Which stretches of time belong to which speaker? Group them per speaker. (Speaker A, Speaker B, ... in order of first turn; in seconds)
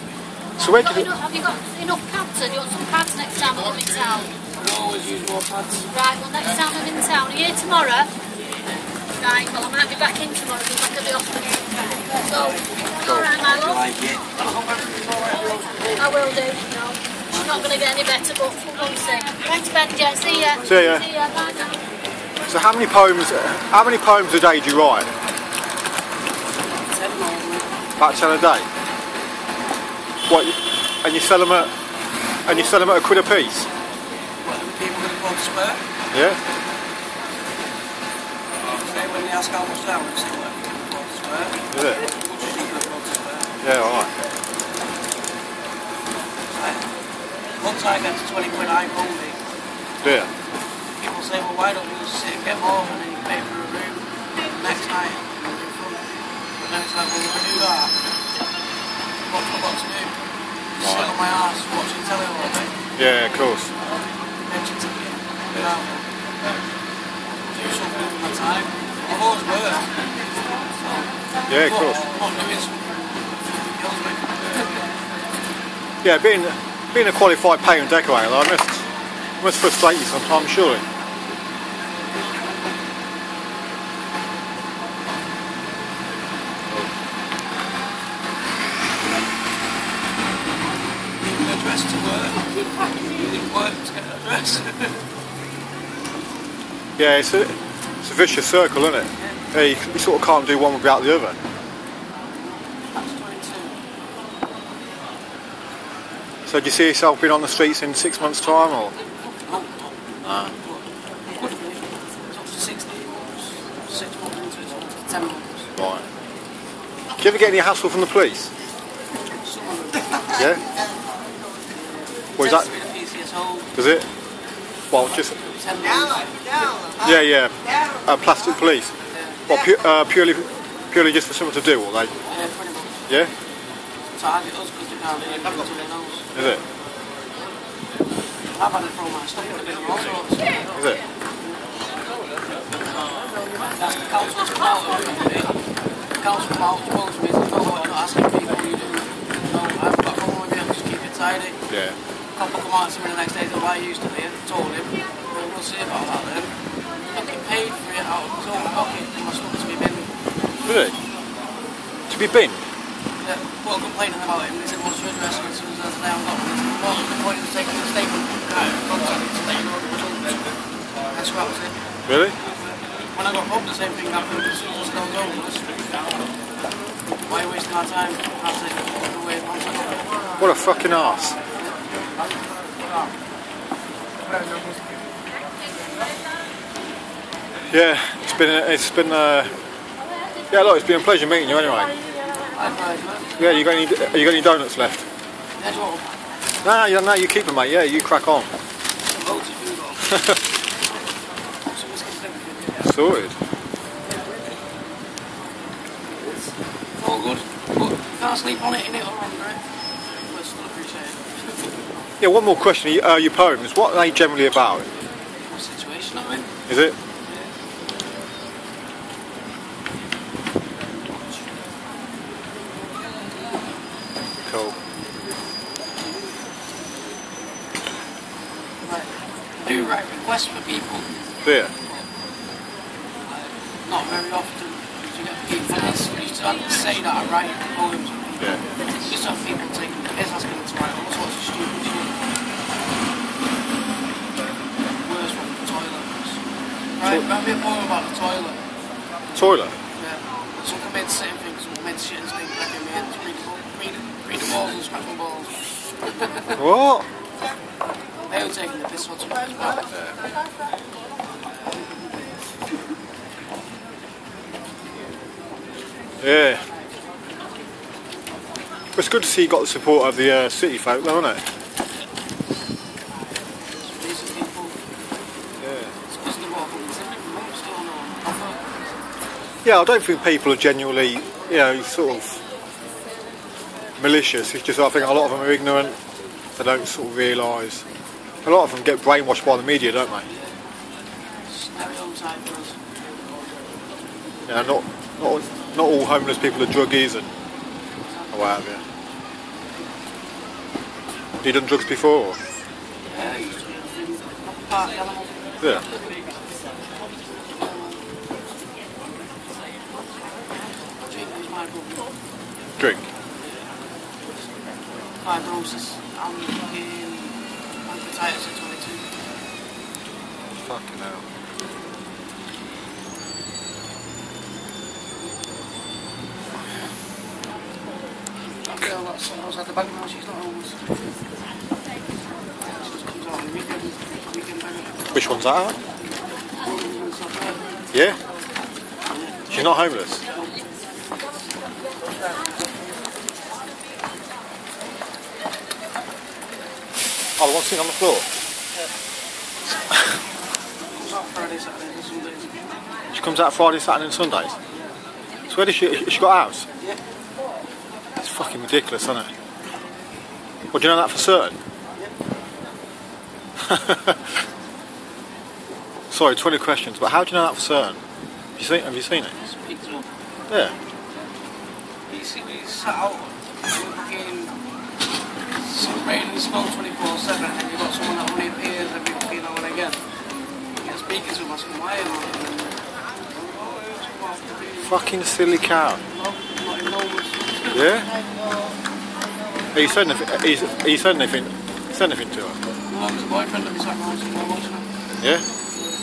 Speaker A: 0.6-1.1, 13.0-13.3, 20.6-21.1, 22.5-25.1, 28.0-28.7, 30.3-31.7, 32.5-33.7, 36.1-36.4, 41.7-42.0, 43.6-44.1, 50.0-50.3, 60.8-61.1, 63.0-63.7, 71.5-72.0, 76.0-78.8, 79.4-80.8, 97.0-101.4, 106.5-109.0, 110.2-110.5, 115.8-116.0, 117.2-118.5, 120.3-120.6, 122.4-122.7, 123.8-124.1, 124.9-125.3, 127.0-128.9, 129.5-132.1, 136.3-136.6, 140.8-141.0, 151.7-152.0, 160.7-161.0, 162.1-162.6, 172.1-172.4, 180.4-181.4, 187.7-189.5, 190.5-191.9, 193.4-195.0, 196.6-198.5, 202.8-203.4, 212.2-214.9, 216.7-217.0, 224.4-224.8, 231.4-231.7, 249.3-249.8, 256.6-257.1, 266.2-266.6, 269.0-271.4, 275.6-275.9, 279.6-282.4, 284.0-286.0, 286.6-287.8, 288.4-290.3, 294.5-297.3, 298.3-298.8, 301.4-302.4, 312.8-313.0, 320.6-321.2, 335.1-335.8, 337.9-338.2, 339.5-340.2, 347.4-348.3, 353.1-354.6, 355.5-356.7, 358.2-359.3, 360.7-361.6, 363.6-364.2, 366.1-368.0, 368.6-369.4, 370.5-370.8, 384.9-386.0, 387.7-388.1, 389.7-392.6
Speaker B: 0.7-4.3, 5.9-8.1, 9.2-13.8, 16.0-21.8
Speaker C: 4.5-5.9, 13.4-16.1, 17.3-17.9, 20.3-20.6, 26.8-27.7, 34.4-35.8, 38.6-43.5, 46.5-46.9, 47.6-49.4, 51.0-56.0, 56.6-58.0, 59.2-60.1, 60.8-62.8, 64.5-66.1, 67.4-69.9, 70.7-74.8, 91.2-95.0, 102.9-103.8, 109.4-115.7, 119.3-120.3, 121.8-123.7, 125.3-126.8, 129.1-129.4, 132.2-133.0, 134.2-136.3, 138.5-140.6, 143.7-145.6, 146.2-151.6, 152.3-156.5, 157.1-160.1, 163.2-170.5, 171.1-171.8, 173.1-176.0, 177.3-180.1, 181.4-181.7, 192.5-193.3, 195.6-196.2, 199.1-200.4, 201.7-202.9, 206.2-211.6, 215.5-216.5, 228.8-229.1, 229.6-231.2, 233.3-242.1, 245.0-246.4, 247.0-248.6, 250.0-256.6, 258.3-260.0, 273.8-274.8, 276.1-278.6, 290.3-290.6, 291.5-292.8, 298.1-298.6, 303.1-306.0, 307.4-308.1, 311.0-312.1, 315.2-319.1, 328.6-331.0, 332.6-335.2, 336.6-337.6, 339.1-339.5, 340.3-340.6, 350.9-352.6, 369.5-370.1, 372.1-374.5, 375.6-380.0, 380.8-382.8, 383.3-385.0, 386.1-387.8, 392.9-394.9